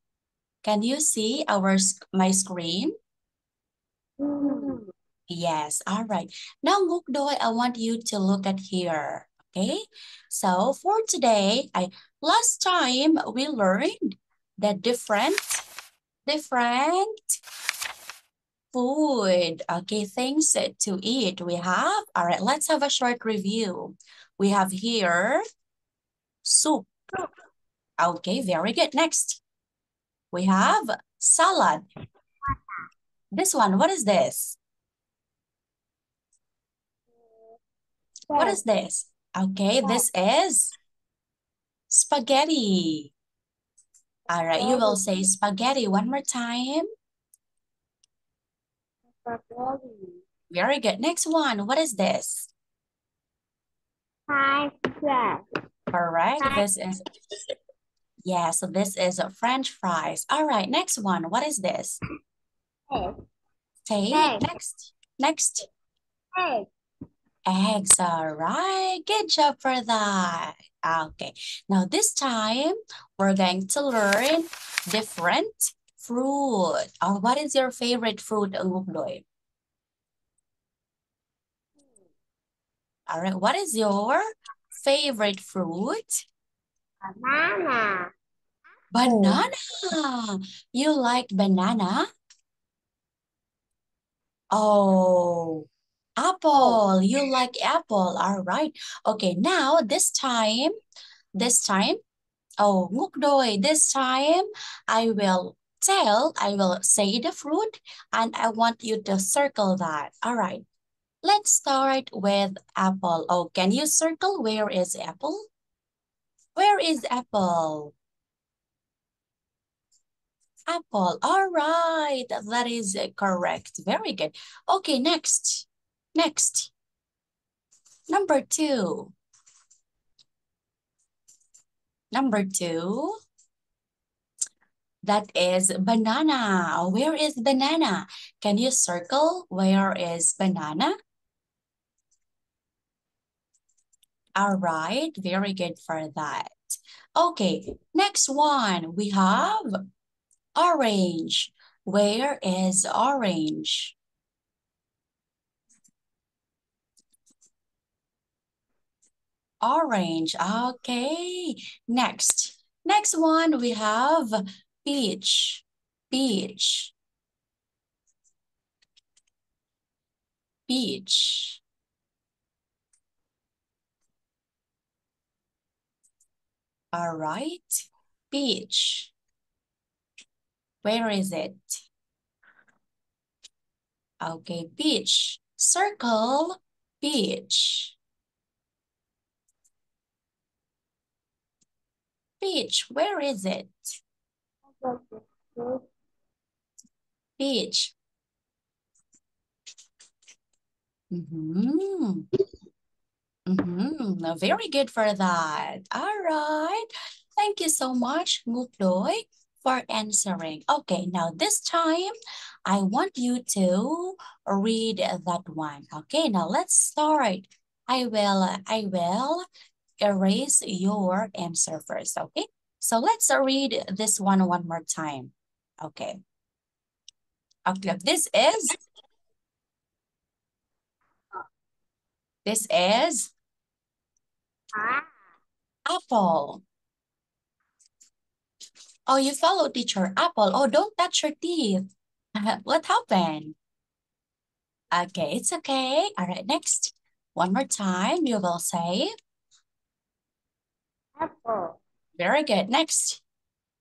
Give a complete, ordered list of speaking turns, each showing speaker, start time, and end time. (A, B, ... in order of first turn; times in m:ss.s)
0:00.6-0:03.0 A
0:04.2-0:04.8 B
0:04.4-0:15.6 A
0:16.3-0:17.4 A
0:18.7-0:25.4 A
0:26.4-0:26.9 A
0:28.0-0:29.4 A
0:30.3-0:31.8 A
0:32.4-0:32.8 B
0:33.4-0:34.6 A
0:37.3-0:37.6 B
0:38.3-0:38.6 B
0:38.4-0:40.7 A
0:41.9-0:43.1 A
0:44.3-0:46.9 A
0:44.6-0:45.2 B
0:49.2-0:50.2 B
0:50.5-0:52.5 A
0:54.3-0:55.4 B
0:55.9-0:57.0 A
0:56.4-0:56.6 B
0:58.2-1:02.0 A
1:02.9-1:03.2 B
1:03.9-1:05.7 A
1:04.1-1:04.5 B
1:06.4-1:06.7 B
1:07.5-1:19.2 A
1:23.1-1:24.2 A
1:24.8-1:26.2 A
1:27.0-1:28.1 B
1:28.9-1:32.1 A
1:29.0-1:29.5 B
1:34.5-1:35.7 A
1:36.2-1:40.7 A
1:41.4-1:42.0 A
1:42.6-1:50.6 A
1:51.2-1:55.5 A
1:56.6-1:57.9 A
2:00.7-2:06.7 A
2:08.1-2:09.1 A
2:12.1-2:13.2 A
2:15.0-2:20.9 A
2:24.4-2:29.8 A
2:30.6-2:34.0 A
2:39.6-2:46.9 A
2:50.7-2:51.6 A
2:56.9-2:59.1 A
3:00.8-3:01.8 A
3:04.2-3:08.0 A
3:12.4-3:13.9 A
3:14.8-3:15.8 B
3:17.4-3:17.9 A
3:21.1-3:22.2 A
3:23.5-3:26.9 A
3:27.4-3:32.1 A
3:32.7-3:39.4 A
3:40.0-3:46.2 A
3:47.7-3:48.8 A
3:52.4-3:53.3 A
3:54.8-3:55.1 B
3:55.9-3:56.6 A
3:59.1-4:01.9 A
4:02.4-4:03.6 A
4:04.9-4:09.1 A
4:11.2-4:11.8 B
4:12.2-4:13.2 A